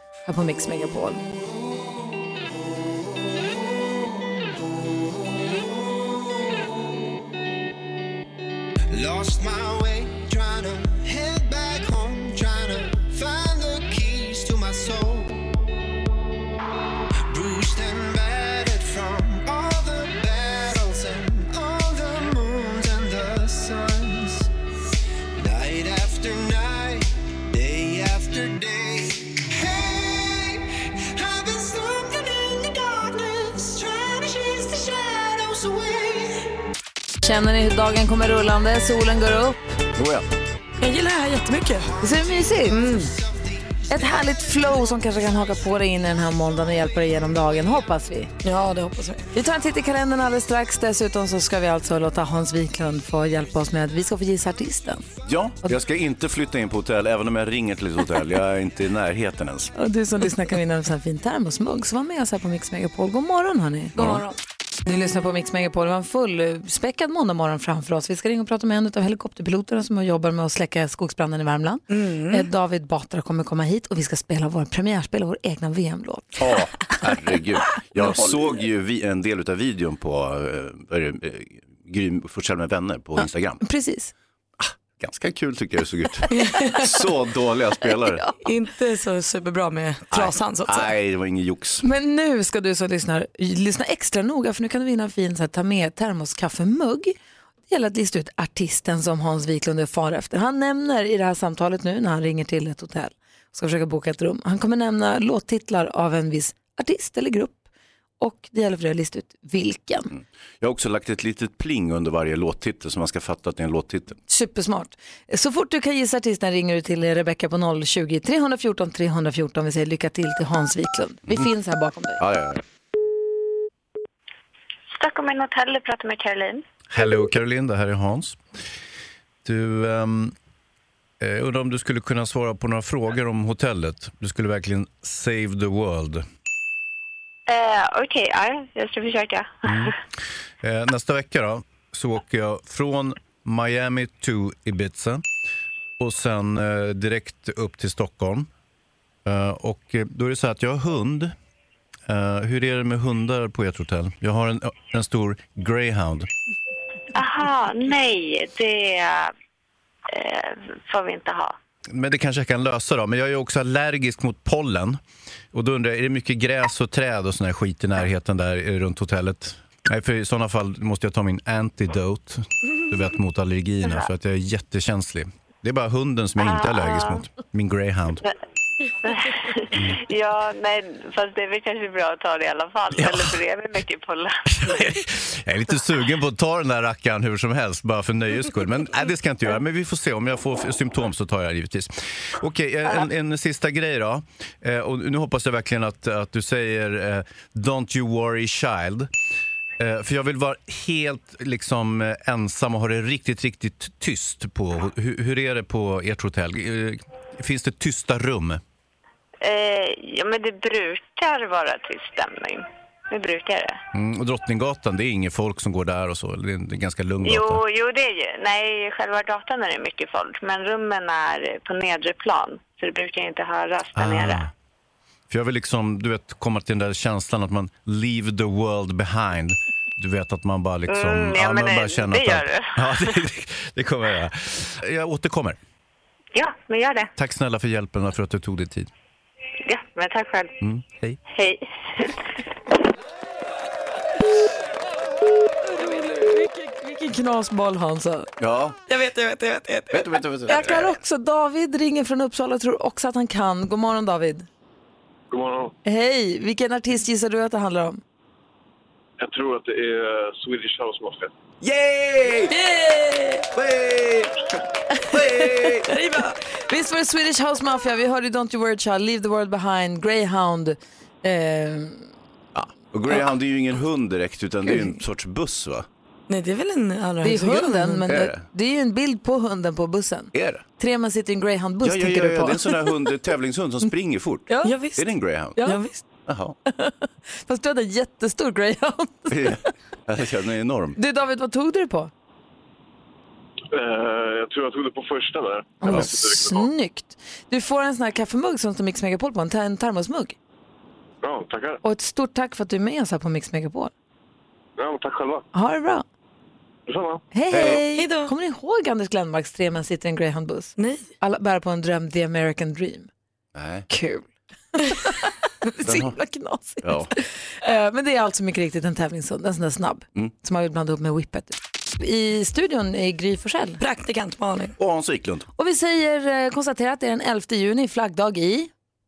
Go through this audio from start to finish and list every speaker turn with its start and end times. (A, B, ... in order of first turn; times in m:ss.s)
0:00.2-0:01.2 A
0:04.8-0:06.8 B
0:08.9-0:15.5 B
0:17.3-0:24.5 B
0:25.4-0:36.5 B
0:37.2-0:39.8 A
0:40.0-0:40.2 C
0:40.8-0:41.9 D
0:42.0-0:44.7 B
0:42.0-0:42.9 A
0:42.7-0:43.1 D
0:43.9-0:48.3 A
0:48.4-0:49.3 D
0:49.3-0:55.0 A
0:55.2-0:59.7 C
0:59.7-1:04.2 A
1:04.0-1:04.2 C
1:04.8-1:16.4 A
1:11.9-1:12.5 D
1:16.4-1:23.6 C
1:23.6-1:24.1 A
1:24.6-1:28.2 C
1:26.3-1:27.0 D
1:28.4-1:30.9 D
1:30.1-1:31.8 C
1:31.8-1:37.1 A
1:37.7-1:47.6 A
1:48.2-1:50.1 A
1:50.1-1:54.2 C
1:54.3-2:02.2 A
2:02.2-2:02.6 C
2:04.9-2:06.6 E
2:06.9-2:08.4 C
2:09.4-2:10.3 C
2:11.2-2:16.2 C
2:17.5-2:19.9 E
2:19.7-2:19.9 C
2:20.6-2:25.2 C
2:26.0-2:28.5 C
2:29.2-2:31.3 C
2:32.1-2:36.3 C
2:37.1-2:39.3 E
2:40.1-2:41.5 E
2:41.9-2:45.0 C
2:45.5-2:58.2 C
2:56.4-2:57.2 E
2:59.0-3:04.3 E
3:03.0-3:03.4 C
3:04.6-3:19.1 C
3:19.8-3:28.6 C
3:29.4-3:33.8 E
3:33.9-3:37.6 C
3:37.2-3:44.4 E
3:44.0-3:44.5 C
3:45.3-3:55.6 C
3:50.9-3:52.7 E
3:56.3-3:57.1 E
3:57.2-3:58.9 C
3:59.6-4:00.6 E
4:00.6-4:01.2 C
4:01.3-4:02.2 E
4:05.7-4:08.3 A
4:08.4-4:08.8 C
4:08.9-4:10.2 D
4:09.9-4:10.9 C
4:10.5-4:14.4 A
4:15.3-4:15.7 F
4:15.8-4:18.0 A
4:19.2-4:21.3 F
4:21.6-4:22.5 C
4:22.5-4:23.4 D
4:23.5-4:24.3 C
4:25.1-4:25.9 C
4:25.9-4:26.4 D
4:26.7-4:32.1 A
4:32.5-4:35.8 C
4:36.3-4:38.0 D
4:37.2-4:42.9 A
4:38.1-4:38.4 C
4:40.3-4:40.6 C
4:41.8-4:45.6 C
4:44.6-4:45.0 D
4:45.6-4:46.0 D
4:46.2-4:46.6 C
4:46.7-4:49.6 A
4:49.3-4:51.0 C
4:51.0-4:52.1 A
4:53.7-4:56.7 F
4:55.8-5:00.4 A
5:01.2-5:01.8 F
5:01.8-5:03.9 A
5:04.8-5:05.4 F
5:05.5-5:06.0 A
5:06.9-5:07.2 F
5:07.3-5:13.1 A
5:07.5-5:07.8 C
5:07.7-5:08.3 D
5:13.5-5:13.8 C
5:13.9-5:23.8 A
5:15.8-5:16.1 C
5:16.8-5:17.1 C
5:23.8-5:24.7 D
5:24.8-5:25.4 C
5:25.6-5:28.7 A